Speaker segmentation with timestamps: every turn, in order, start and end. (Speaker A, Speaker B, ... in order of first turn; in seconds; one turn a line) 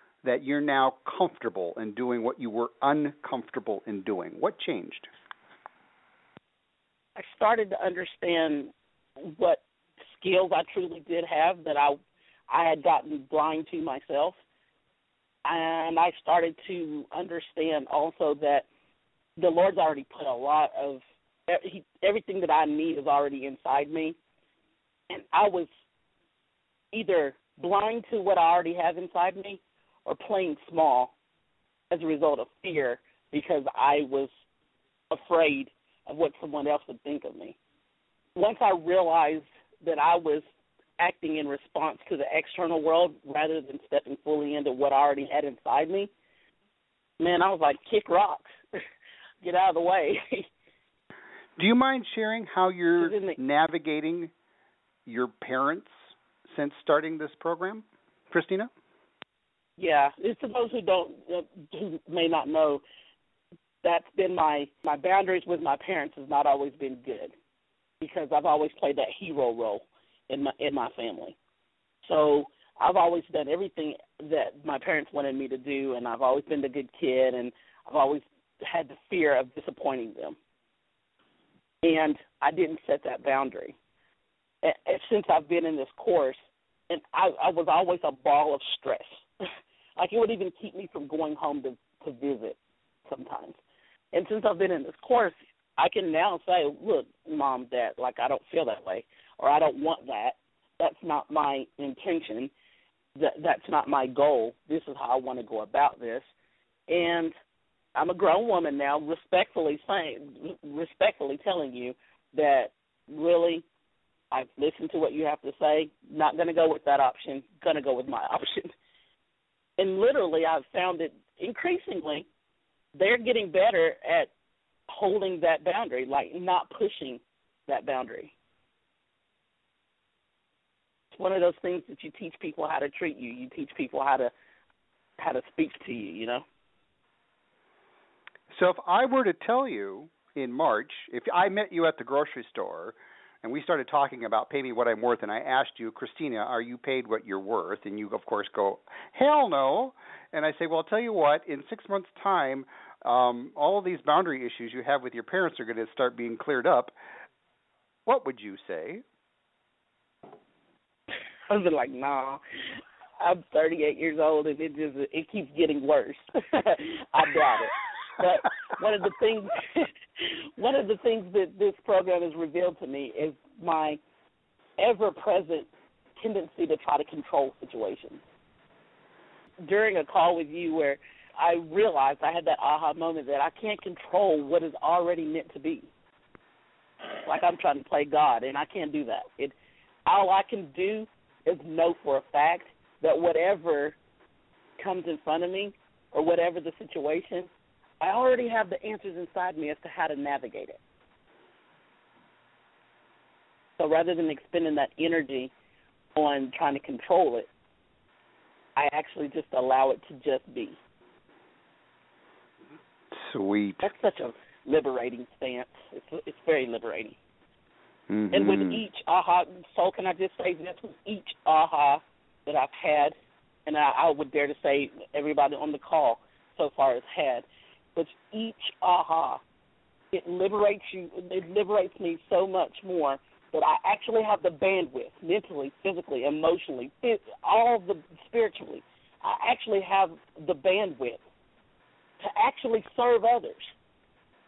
Speaker A: 0.2-5.1
Speaker B: 7.2-9.6
Speaker B: 10.2-14.4
Speaker B: 15.4-18.7
Speaker B: 19.4-24.2
Speaker B: 25.1-25.7
Speaker B: 26.9-31.1
Speaker B: 31.9-34.3
Speaker B: 35.1-37.6
Speaker B: 38.4-40.5
Speaker B: 41.0-46.1
Speaker B: 47.2-48.6
Speaker B: 49.4-50.5
Speaker A: 51.6-54.3
Speaker B: 53.0-53.4
Speaker A: 55.1-58.7
Speaker B: 59.8-62.8
Speaker B: 63.8-67.3
Speaker B: 68.0-71.4
Speaker B: 72.0-80.4
Speaker B: 81.8-83.8
Speaker B: 84.6-89.2
Speaker B: 90.0-92.6
Speaker B: 93.1-93.6
Speaker B: 94.1-102.5
Speaker B: 103.2-106.3
Speaker B: 106.9-107.3
Speaker B: 108.0-113.6
Speaker B: 114.3-118.7
Speaker B: 119.8-122.3
Speaker B: 123.0-124.3
Speaker B: 124.9-128.3
Speaker B: 131.1-134.3
Speaker B: 135.2-136.4
Speaker A: 138.5-156.9
Speaker A: 158.1-159.0
Speaker B: 161.5-162.4
Speaker B: 163.2-169.9
Speaker B: 170.6-174.0
Speaker B: 174.8-178.2
Speaker B: 179.6-185.9
Speaker B: 187.2-189.6
Speaker B: 190.1-194.0
Speaker B: 194.8-197.5
Speaker B: 198.0-200.8
Speaker B: 203.8-205.5
Speaker B: 206.2-207.5
Speaker B: 208.8-210.8
Speaker A: 213.1-213.9
Speaker B: 213.8-217.2
Speaker A: 218.1-218.8
Speaker B: 218.3-223.1
Speaker B: 223.7-227.4
Speaker B: 228.0-229.4
Speaker B: 230.1-241.2
Speaker B: 242.2-243.7